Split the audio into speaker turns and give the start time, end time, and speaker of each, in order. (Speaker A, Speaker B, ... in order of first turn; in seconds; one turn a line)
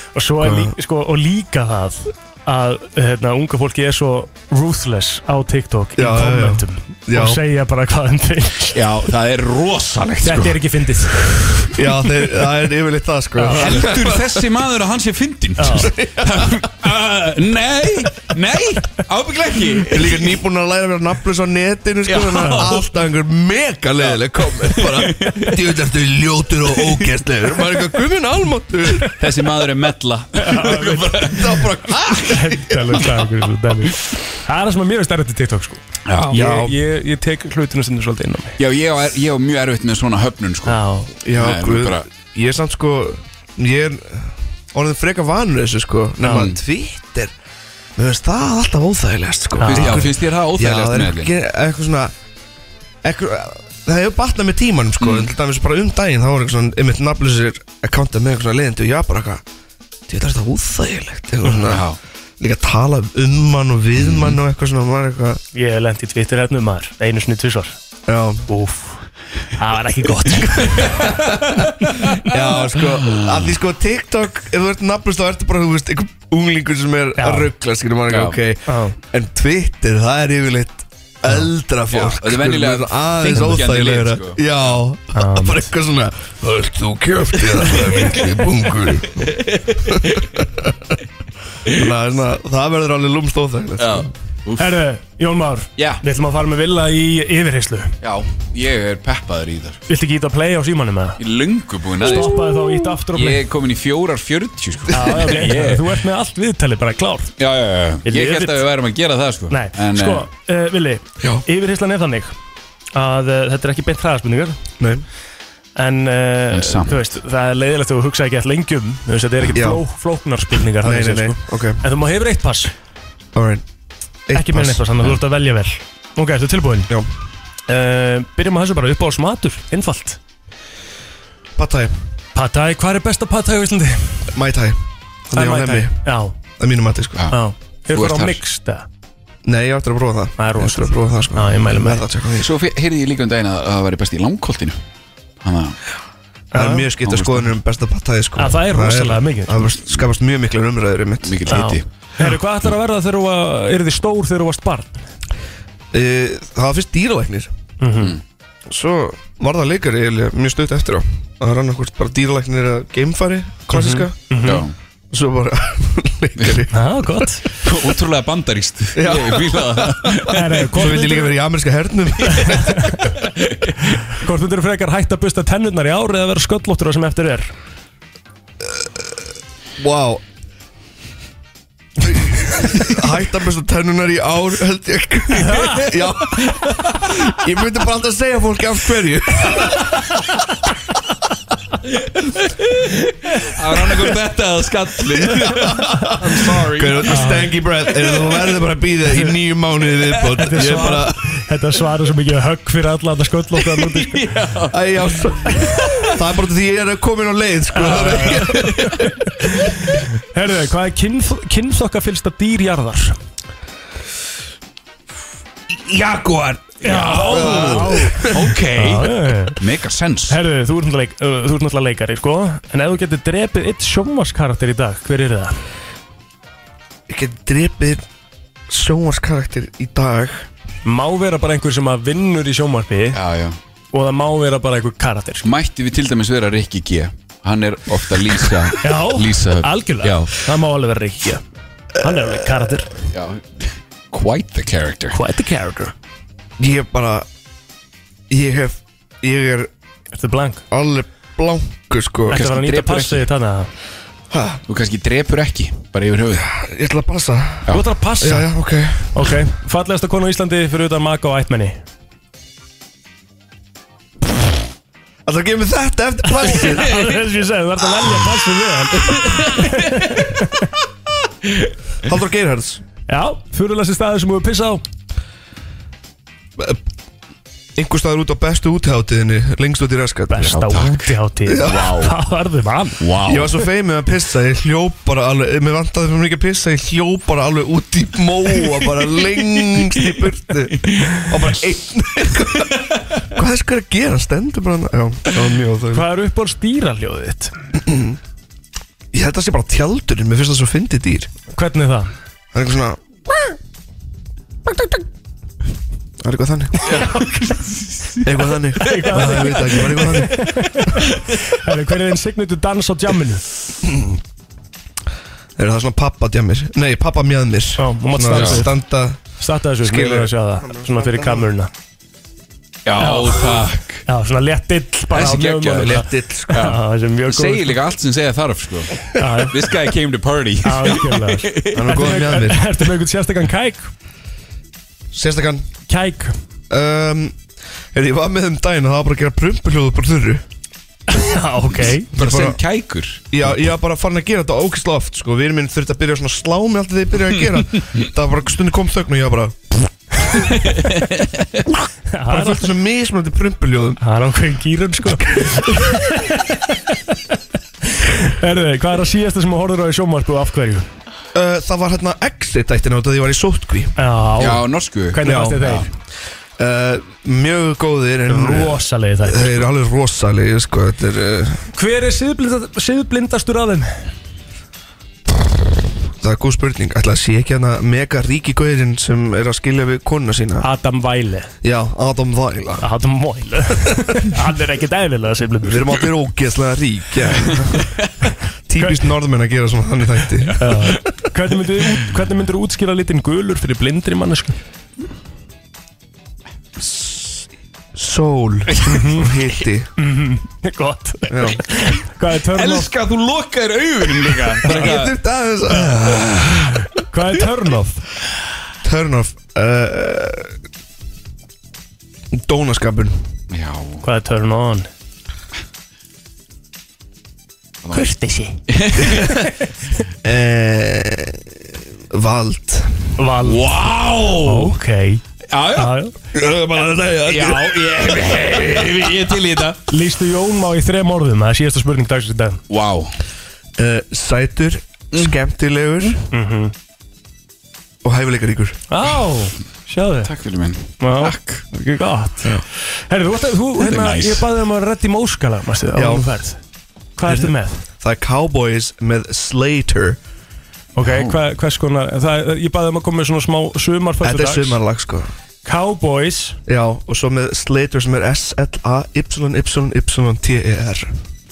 Speaker A: 0.1-8.8
Speaker B: 0.4-0.7
Speaker B: 6.0-7.4
Speaker C: 8.7-10.6
Speaker A: 10.2-11.7
Speaker B: 11.7-14.4
Speaker A: 13.4-13.8
Speaker C: 13.5-20.4
Speaker A: 15.6-15.9
Speaker B: 15.8-16.6
Speaker B: 19.9-29.1
Speaker C: 22.1-22.8
Speaker A: 22.3-22.8
Speaker C: 24.0-25.8
Speaker C: 26.7-27.1
Speaker C: 29.1-32.1
Speaker A: 30.4-31.4
Speaker B: 31.2-33.0
Speaker A: 32.3-38.6
Speaker C: 36.0-36.6
Speaker B: 36.3-36.7
Speaker C: 38.6-40.8
Speaker A: 40.6-41.1
Speaker B: 41.2-47.3
Speaker C: 41.4-42.1
Speaker A: 46.2-46.5
Speaker C: 46.3-46.6
Speaker B: 48.0-52.1
Speaker A: 49.6-50.1
Speaker C: 49.6-51.3
Speaker B: 53.0-59.4
Speaker C: 55.0-55.3
Speaker B: 60.1-61.9
Speaker C: 61.6-62.0
Speaker B: 62.4-65.4
Speaker C: 64.0-64.4
Speaker A: 65.5-67.8
Speaker B: 68.1-68.4
Speaker A: 68.5-69.0
Speaker A: 69.5-71.2
Speaker B: 70.7-71.5
Speaker B: 72.2-89.3
Speaker C: 73.0-73.5
Speaker A: 77.2-77.5
Speaker C: 78.1-78.4
Speaker A: 78.7-79.0
Speaker C: 81.9-84.8
Speaker A: 85.1-85.7
Speaker C: 87.7-88.2
Speaker C: 89.1-90.4
Speaker B: 90.1-90.7
Speaker C: 91.7-91.9
Speaker B: 91.7-94.0
Speaker C: 93.8-94.7
Speaker A: 94.6-98.0
Speaker C: 95.8-96.0
Speaker C: 98.0-99.8
Speaker A: 99.9-101.2
Speaker C: 101.2-106.0
Speaker A: 102.0-103.4
Speaker A: 104.9-107.3
Speaker C: 107.4-110.3
Speaker A: 108.0-108.6
Speaker A: 109.5-112.3
Speaker A: 112.9-114.6
Speaker A: 115.8-122.7
Speaker C: 116.5-117.1
Speaker B: 119.5-119.8
Speaker B: 120.8-121.8
Speaker B: 123.3-123.6
Speaker B: 124.3-124.8
Speaker A: 124.3-126.9
Speaker A: 127.7-130.2
Speaker B: 131.6-131.9
Speaker A: 132.3-134.3
Speaker B: 134.3-134.8
Speaker B: 135.3-136.0
Speaker A: 135.3-136.3
Speaker B: 136.6-137.2
Speaker A: 137.3-138.9
Speaker C: 137.9-138.4
Speaker B: 139.4-142.5
Speaker A: 140.4-142.0
Speaker C: 142.4-144.8
Speaker C: 145.4-145.8
Speaker A: 146.5-146.9
Speaker B: 146.5-151.6
Speaker C: 147.0-147.5
Speaker A: 148.4-149.7
Speaker C: 151.2-151.8
Speaker A: 151.5-155.0
Speaker B: 155.9-157.5
Speaker A: 157.8-158.2
Speaker B: 158.7-164.4
Speaker A: 163.7-164.7
Speaker C: 164.4-164.7
Speaker B: 165.1-167.2
Speaker C: 166.4-166.6
Speaker A: 166.7-167.4
Speaker C: 167.6-170.9
Speaker B: 168.9-172.8
Speaker A: 170.3-171.3
Speaker A: 172.2-173.1
Speaker C: 173.1-173.8
Speaker A: 174.1-177.5
Speaker B: 179.8-180.2
Speaker B: 182.0-189.9
Speaker A: 185.4-185.8
Speaker C: 185.6-185.8
Speaker C: 186.6-186.9
Speaker C: 191.9-197.3
Speaker B: 195.4-201.2
Speaker A: 197.1-197.5
Speaker C: 197.9-198.3
Speaker A: 200.4-204.2
Speaker C: 203.6-206.1
Speaker B: 204.7-209.0
Speaker A: 207.7-213.2
Speaker C: 208.1-209.1
Speaker C: 215.7-220.4
Speaker A: 216.8-219.6
Speaker B: 217.3-218.4
Speaker A: 220.3-225.6
Speaker B: 227.1-228.0
Speaker B: 228.7-230.4
Speaker A: 230.8-233.2
Speaker C: 233.1-233.6
Speaker A: 233.9-235.5
Speaker C: 235.4-240.3
Speaker A: 238.8-241.4
Speaker A: 242.0-242.9
Speaker B: 242.0-242.6
Speaker C: 243.0-245.2
Speaker A: 245.1-245.9
Speaker B: 246.6-247.2
Speaker B: 248.3-249.7
Speaker A: 250.1-250.6
Speaker B: 250.7-252.4
Speaker A: 252.3-253.7
Speaker C: 252.3-253.3
Speaker B: 254.3-254.6
Speaker C: 254.7-256.5
Speaker B: 256.4-259.1
Speaker A: 257.7-258.5
Speaker A: 259.1-261.8
Speaker B: 265.2-267.0
Speaker A: 266.3-270.7
Speaker C: 269.1-270.0
Speaker B: 272.0-272.8
Speaker A: 273.1-274.8
Speaker B: 277.8-280.6
Speaker A: 280.3-283.0
Speaker C: 280.5-282.1
Speaker B: 281.5-281.9
Speaker C: 283.0-283.6
Speaker B: 283.2-296.1
Speaker C: 290.7-291.3
Speaker A: 295.9-297.5
Speaker B: 297.9-298.1
Speaker B: 299.1-301.3
Speaker A: 301.5-302.1
Speaker B: 302.5-303.0
Speaker B: 306.2-306.9
Speaker C: 306.8-309.4
Speaker B: 308.2-310.6
Speaker A: 308.8-313.4
Speaker B: 313.8-314.2
Speaker B: 315.6-319.2
Speaker A: 317.8-318.8
Speaker C: 318.3-318.6
Speaker A: 319.4-321.7
Speaker B: 319.8-321.5
Speaker C: 322.8-324.0
Speaker A: 323.0-323.5
Speaker A: 324.1-327.8
Speaker C: 325.1-332.1
Speaker B: 325.8-326.7
Speaker A: 329.2-329.5
Speaker A: 330.6-333.9
Speaker B: 331.7-332.6
Speaker B: 335.1-335.6
Speaker A: 335.9-336.3
Speaker B: 336.7-337.4
Speaker B: 337.9-340.4
Speaker A: 341.1-342.1
Speaker C: 342.1-343.6
Speaker B: 342.1-342.6
Speaker B: 343.3-349.7
Speaker C: 350.6-351.6
Speaker A: 352.1-352.7
Speaker B: 352.3-354.0
Speaker A: 354.0-357.1
Speaker B: 355.2-355.7
Speaker A: 357.9-360.9
Speaker B: 361.3-363.9
Speaker A: 364.0-365.9
Speaker C: 364.4-365.9
Speaker B: 365.2-365.6
Speaker B: 366.6-371.6
Speaker A: 368.3-369.6
Speaker A: 371.7-374.0
Speaker B: 376.2-380.7
Speaker A: 380.6-381.5
Speaker B: 381.6-382.9
Speaker A: 382.8-386.0
Speaker B: 385.6-387.9
Speaker B: 388.7-390.7
Speaker A: 390.6-394.6
Speaker B: 396.8-397.3
Speaker B: 397.9-399.9
Speaker A: 398.9-399.3
Speaker A: 400.0-402.9
Speaker B: 401.3-401.6
Speaker C: 402.5-405.2
Speaker B: 404.6-406.7
Speaker C: 406.2-406.6
Speaker A: 407.0-408.0
Speaker B: 408.8-410.5
Speaker B: 412.3-413.1
Speaker C: 413.5-414.0
Speaker A: 414.0-414.9
Speaker C: 417.8-418.1
Speaker A: 417.9-418.6
Speaker C: 418.7-419.4
Speaker B: 419.0-419.4
Speaker B: 420.2-421.4
Speaker B: 422.1-423.0
Speaker A: 423.2-423.6
Speaker C: 423.4-424.8
Speaker A: 424.4-425.2
Speaker C: 425.5-426.0
Speaker A: 425.7-426.1
Speaker B: 426.3-429.0
Speaker C: 427.2-429.8
Speaker A: 429.9-432.6
Speaker C: 432.7-433.1
Speaker B: 433.8-436.2
Speaker A: 436.3-436.7
Speaker B: 438.0-438.8
Speaker A: 438.9-440.3
Speaker C: 440.2-441.6
Speaker A: 441.0-446.6
Speaker C: 443.8-444.5
Speaker B: 445.9-446.3
Speaker A: 447.2-447.8
Speaker B: 447.2-450.2
Speaker A: 450.9-454.8
Speaker C: 451.0-451.4
Speaker B: 454.2-455.3
Speaker A: 455.6-456.6
Speaker B: 456.7-461.1